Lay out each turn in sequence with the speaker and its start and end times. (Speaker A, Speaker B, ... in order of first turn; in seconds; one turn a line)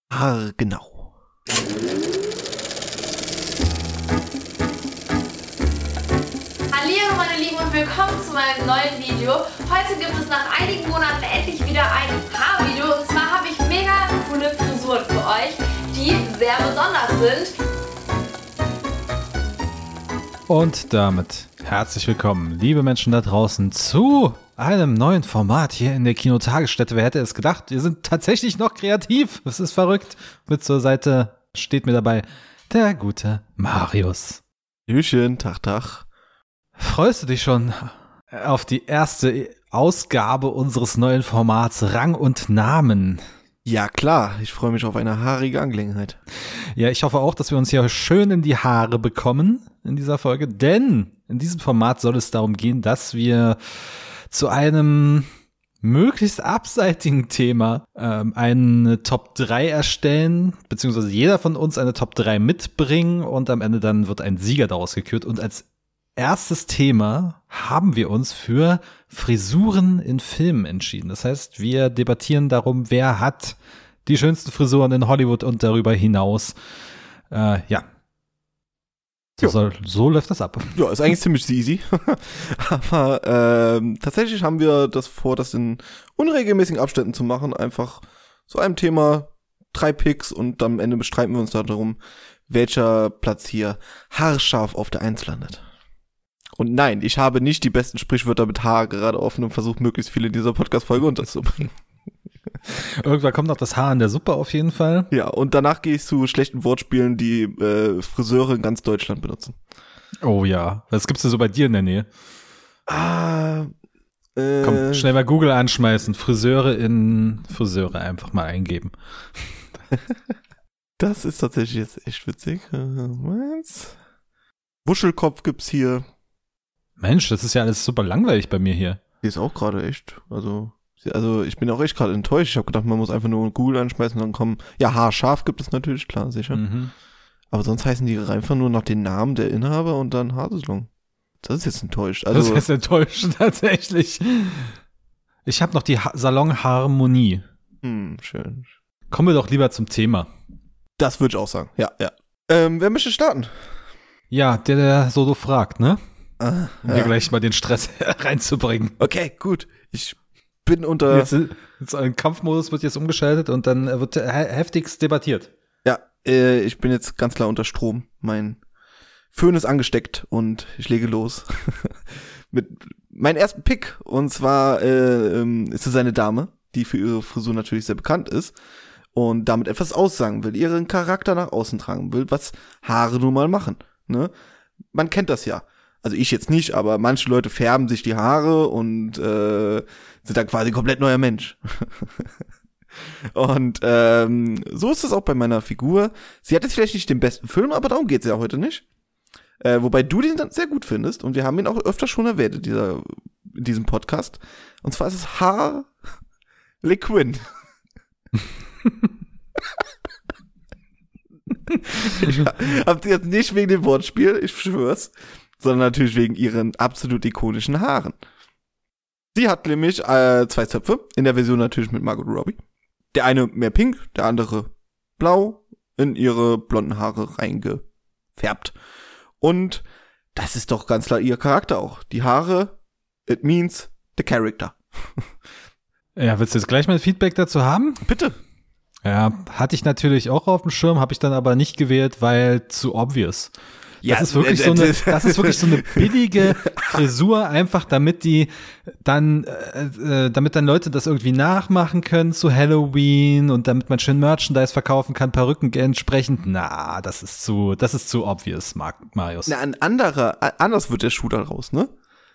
Speaker A: 0.1-1.1
Speaker B: 6.7-17.5
Speaker C: 20.5-34.4
Speaker A: 34.9-36.1
Speaker C: 36.8-43.2
Speaker A: 43.6-46.2
Speaker C: 46.7-55.3
Speaker C: 55.8-65.7
Speaker C: 66.2-76.6
Speaker C: 77.3-77.8
Speaker C: 79.4-80.7
Speaker A: 80.7-95.6
Speaker A: 96.5-101.7
Speaker C: 102.7-105.1
Speaker A: 105.1-109.5
Speaker C: 110.2-112.1
Speaker A: 112.9-113.7
Speaker A: 114.3-115.1
Speaker C: 114.6-118.9
Speaker A: 121.0-124.0
Speaker A: 124.8-126.0
Speaker C: 127.0-129.0
Speaker A: 129.2-136.6
Speaker C: 136.5-136.9
Speaker A: 137.5-140.9
Speaker A: 141.4-142.7
Speaker C: 142.3-144.7
Speaker C: 145.4-147.4
Speaker A: 147.8-148.7
Speaker C: 149.1-150.3
Speaker A: 151.0-153.5
Speaker C: 154.3-156.0
Speaker A: 156.4-157.1
Speaker C: 156.8-158.9
Speaker A: 159.0-161.3
Speaker C: 161.1-165.5
Speaker A: 165.8-168.6
Speaker A: 169.3-178.6
Speaker A: 179.1-184.3
Speaker A: 184.9-192.3
Speaker A: 193.0-198.8
Speaker A: 199.6-205.9
Speaker A: 206.8-207.5
Speaker A: 211.7-218.2
Speaker A: 219.3-222.6
Speaker A: 223.1-227.8
Speaker A: 228.3-228.7
Speaker A: 229.4-235.2
Speaker C: 236.2-238.0
Speaker A: 238.0-238.4
Speaker C: 239.0-243.5
Speaker A: 244.0-247.0
Speaker C: 244.0-248.5
Speaker C: 249.0-259.5
Speaker A: 259.5-261.9